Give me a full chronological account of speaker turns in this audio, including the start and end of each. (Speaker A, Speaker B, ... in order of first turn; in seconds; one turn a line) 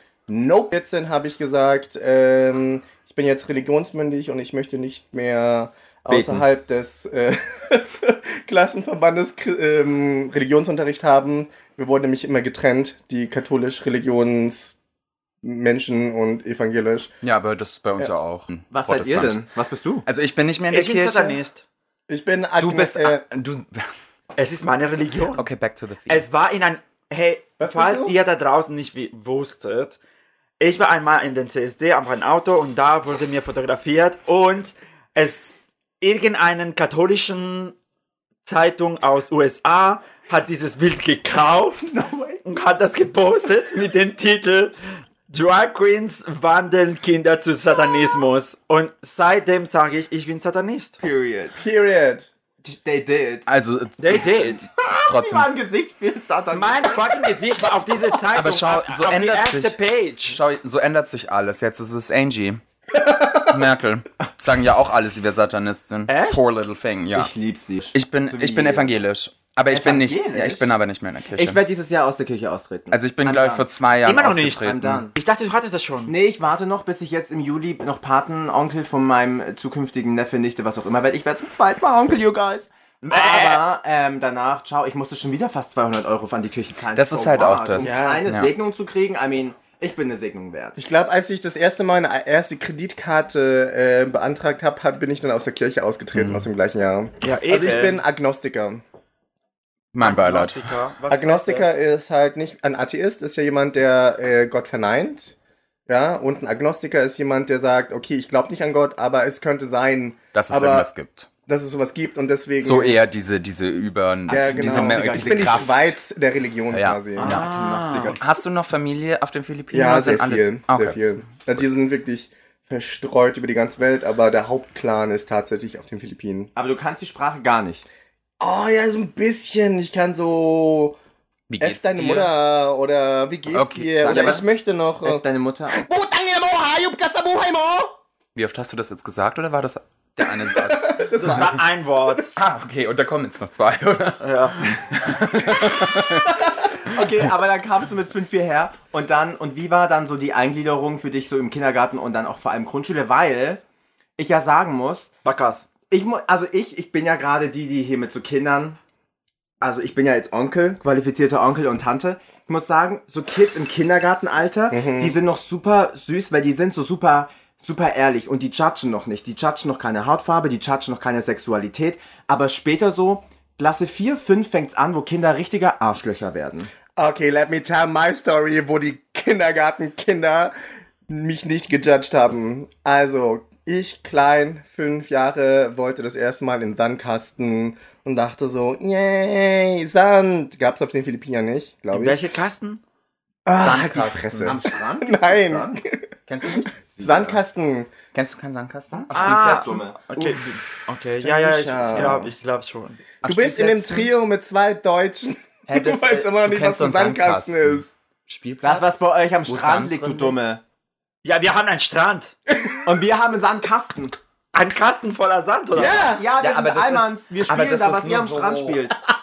Speaker A: 0.3-14.8
Speaker B: 6.1-6.4
Speaker A: 15.4-17.1
Speaker C: 17.2-19.4
Speaker B: 18.7-20.0
Speaker C: 20.1-21.4
Speaker D: 20.7-21.6
Speaker A: 22.1-23.2
Speaker C: 22.6-23.9
Speaker D: 24.4-25.4
Speaker C: 25.3-26.2
Speaker D: 26.1-30.0
Speaker A: 27.6-28.1
Speaker D: 30.6-37.7
Speaker D: 38.4-41.8
Speaker B: 41.8-42.4
Speaker D: 42.4-44.7
Speaker D: 45.3-51.0
Speaker B: 51.0-51.6
Speaker A: 51.5-52.3
Speaker B: 52.6-53.5
Speaker C: 53.5-55.5
Speaker D: 54.0-54.6
Speaker B: 54.6-57.2
Speaker D: 56.5-60.4
Speaker C: 58.3-62.6
Speaker A: 63.0-63.5
Speaker C: 63.4-67.3
Speaker D: 66.1-66.4
Speaker B: 67.1-68.9
Speaker C: 67.9-71.6
Speaker B: 69.7-70.7
Speaker B: 71.3-73.6
Speaker C: 72.9-75.0
Speaker D: 74.0-76.1
Speaker B: 74.5-75.1
Speaker B: 76.1-90.8
Speaker D: 83.0-83.7
Speaker C: 86.9-88.5
Speaker A: 87.8-88.2
Speaker A: 90.8-98.8
Speaker C: 96.1-96.5
Speaker D: 97.2-98.0
Speaker C: 99.9-100.6
Speaker D: 100.0-101.8
Speaker A: 101.1-105.3
Speaker A: 105.9-110.9
Speaker C: 110.3-111.3
Speaker A: 111.5-113.0
Speaker C: 112.6-116.0
Speaker B: 114.3-115.8
Speaker A: 114.3-117.4
Speaker C: 116.7-121.0
Speaker B: 117.2-118.2
Speaker A: 119.7-126.5
Speaker B: 126.5-127.8
Speaker A: 128.4-130.9
Speaker C: 131.5-132.3
Speaker A: 131.6-137.9
Speaker C: 133.5-134.5
Speaker B: 134.1-134.4
Speaker B: 135.0-135.8
Speaker C: 138.3-141.5
Speaker A: 140.4-141.6
Speaker D: 141.1-142.3
Speaker C: 142.3-146.3
Speaker D: 144.2-144.6
Speaker B: 146.8-153.6
Speaker B: 154.2-155.1
Speaker D: 155.2-155.7
Speaker B: 155.8-158.8
Speaker B: 159.6-176.7
Speaker A: 164.7-165.2
Speaker A: 176.9-180.5
Speaker A: 181.1-192.2
Speaker D: 191.9-192.8
Speaker A: 193.4-196.0
Speaker C: 193.6-194.6
Speaker B: 194.4-195.8
Speaker C: 196.3-197.0
Speaker A: 196.5-197.9
Speaker B: 197.0-197.4
Speaker C: 198.1-199.8
Speaker B: 199.1-200.0
Speaker D: 199.1-203.0
Speaker A: 200.2-200.4
Speaker A: 201.2-202.3
Speaker C: 203.2-204.1
Speaker A: 203.2-207.9
Speaker C: 205.7-210.4
Speaker B: 208.6-210.6
Speaker D: 211.2-212.3
Speaker A: 212.5-212.8
Speaker B: 212.8-214.2
Speaker D: 214.5-216.1
Speaker A: 215.7-216.2
Speaker B: 215.9-218.9
Speaker C: 216.4-218.8